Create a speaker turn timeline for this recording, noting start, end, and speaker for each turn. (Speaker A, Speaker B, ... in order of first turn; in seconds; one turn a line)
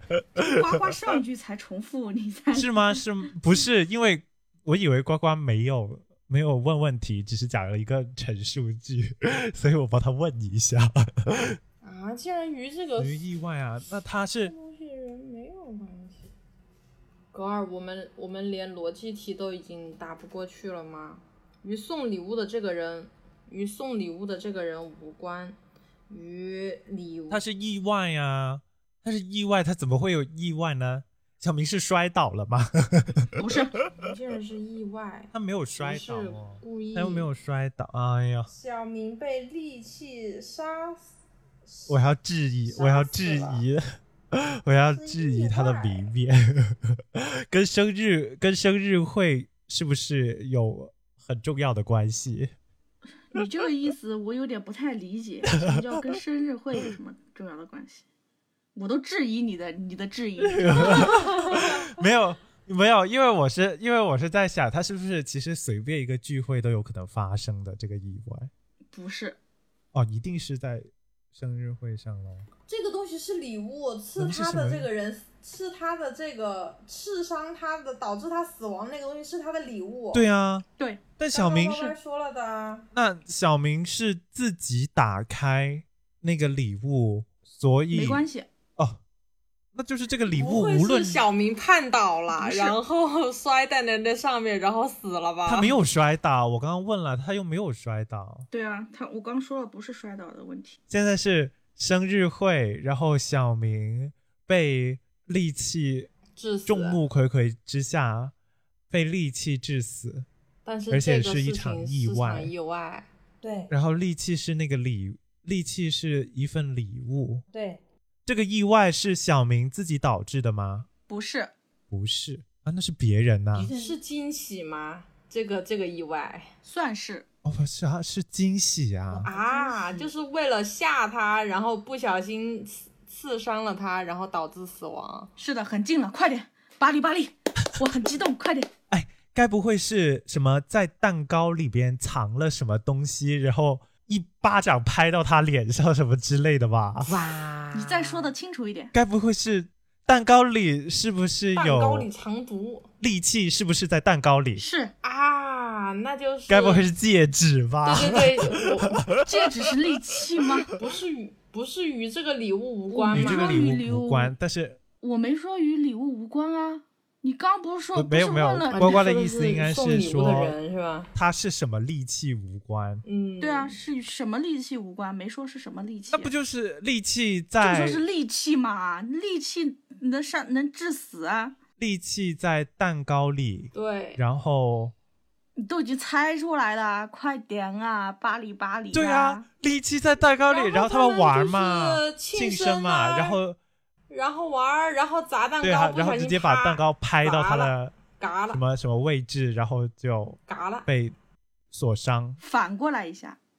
Speaker A: 0.4-0.6
Speaker B: 0.4-3.0
Speaker A: 2.5-11.6
Speaker C: 11.8-13.2
Speaker A: 13.0-14.5
Speaker C: 14.4-16.3
Speaker C: 17.3-25.6
Speaker C: 26.1-27.4
Speaker A: 27.3-34.1
Speaker B: 33.4-33.8
Speaker C: 33.9-37.3
Speaker A: 35.3-38.5
Speaker C: 38.5-41.1
Speaker C: 41.6-42.0
Speaker A: 41.9-52.5
Speaker C: 42.7-43.6
Speaker C: 44.9-46.1
Speaker B: 53.3-58.0
Speaker A: 55.6-55.9
Speaker B: 58.7-61.5
Speaker A: 60.4-68.5
Speaker B: 68.9-69.4
Speaker A: 69.9-72.5
Speaker C: 72.7-80.2
Speaker A: 74.2-74.9
Speaker A: 80.1-80.7
Speaker A: 81.2-82.0
Speaker C: 81.3-82.9
Speaker A: 82.9-88.2
Speaker B: 87.9-88.5
Speaker A: 89.7-91.2
Speaker C: 90.3-95.8
Speaker A: 92.4-92.8
Speaker A: 95.5-98.5
Speaker B: 98.5-100.8
Speaker A: 100.9-106.1
Speaker C: 106.3-107.0
Speaker A: 106.7-108.3
Speaker A: 108.9-110.3
Speaker C: 110.6-113.1
Speaker A: 110.9-112.5
Speaker D: 113.4-113.7
Speaker A: 113.7-117.4
Speaker D: 117.5-117.8
Speaker A: 118.2-120.9
Speaker B: 121.1-121.5
Speaker A: 121.9-123.7
Speaker D: 123.5-124.0
Speaker C: 123.7-126.5
Speaker B: 126.6-127.2
Speaker A: 127.4-129.3
Speaker D: 129.1-130.1
Speaker C: 129.2-135.3
Speaker B: 135.4-138.7
Speaker A: 138.9-147.2
Speaker D: 147.1-148.3
Speaker B: 147.7-148.9
Speaker A: 148.9-152.1
Speaker C: 151.5-152.9
Speaker A: 153.0-154.6
Speaker B: 154.6-154.9
Speaker C: 155.0-156.9
Speaker A: 156.5-160.1
Speaker C: 157.8-159.0
Speaker B: 159.2-160.7
Speaker C: 160.7-163.7
Speaker B: 162.9-164.3
Speaker A: 163.1-164.8
Speaker B: 165.0-169.0
Speaker A: 167.9-170.6
Speaker C: 168.7-171.1
Speaker A: 171.1-173.0
Speaker C: 173.0-173.8
Speaker B: 173.4-176.3
Speaker A: 176.1-178.0
Speaker B: 177.6-181.6
Speaker A: 181.8-184.9
Speaker C: 183.7-184.2
Speaker B: 185.6-189.4
Speaker A: 188.9-193.6
Speaker C: 190.5-193.4
Speaker C: 194.1-198.6
Speaker A: 195.6-197.9
Speaker A: 198.5-201.1
Speaker C: 200.5-200.9
Speaker A: 201.7-202.4
Speaker B: 202.4-203.4